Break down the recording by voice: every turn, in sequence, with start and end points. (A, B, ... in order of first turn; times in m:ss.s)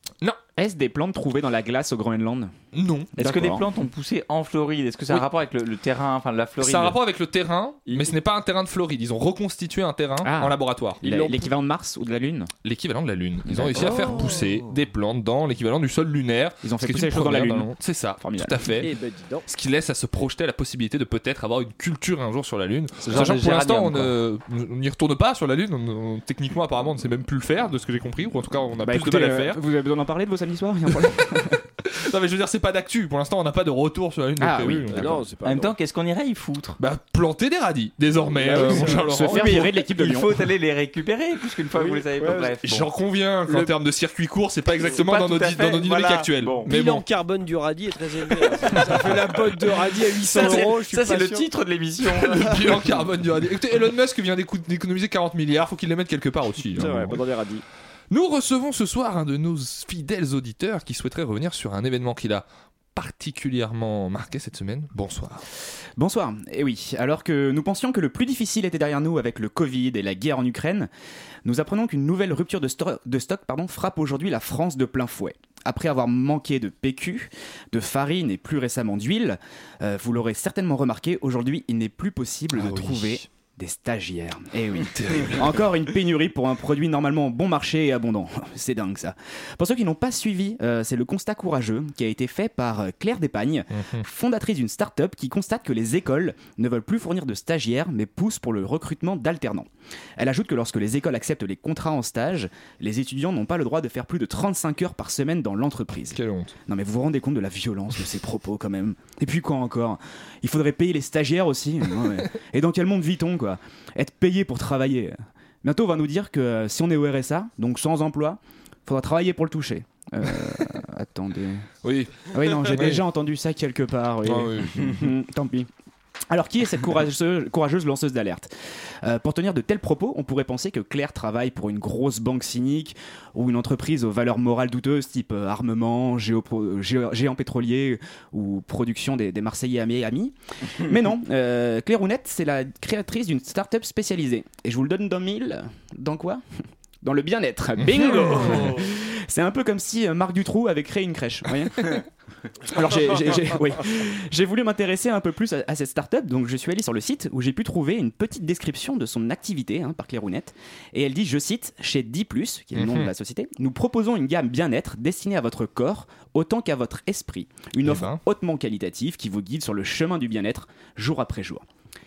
0:00.6-0:02.5 A
0:02.7-0:03.1 B
0:03.2-0:03.6 A
0:03.2-0:07.0 C
0:06.6-0:11.0 B
0:07.9-0:08.1 D
0:10.2-0:12.5 A
0:11.0-0:11.5 D
0:12.6-0:18.9 B
0:13.5-0:14.4 A
0:16.6-0:18.7 A
0:18.8-0:19.4 D
0:19.4-0:29.6 B
0:23.0-0:24.2 C
0:28.8-0:31.6 A
0:31.8-0:35.1 B
0:34.4-0:35.2 A
0:34.9-0:35.7 D
0:35.4-0:36.8 C
0:36.8-0:39.7 B
0:38.3-0:39.1 D
0:38.5-0:40.4 A
0:39.2-0:42.9 C
0:41.7-0:42.6 D
0:42.6-0:47.0 B
0:43.5-0:43.7 D
0:44.8-0:46.7 C
0:46.6-0:51.5 D
0:50.2-0:52.8 C
0:52.2-0:57.2 B
0:56.8-0:57.6 D
0:58.1-1:05.4 B
1:06.0-1:10.9 A
1:11.4-2:01.6 A
1:22.5-1:23.2 B
1:24.9-1:25.6 B
1:33.7-1:34.0 B
1:46.1-1:46.5 B
2:01.8-2:03.0 B
2:02.3-2:05.7 A
2:04.2-2:05.0 B
2:06.3-2:08.5 A
2:09.0-2:26.4 A
2:27.0-2:32.0 A
2:27.8-2:28.7 B
2:32.6-2:51.6 A
2:42.7-2:43.1 B
2:47.8-2:48.2 B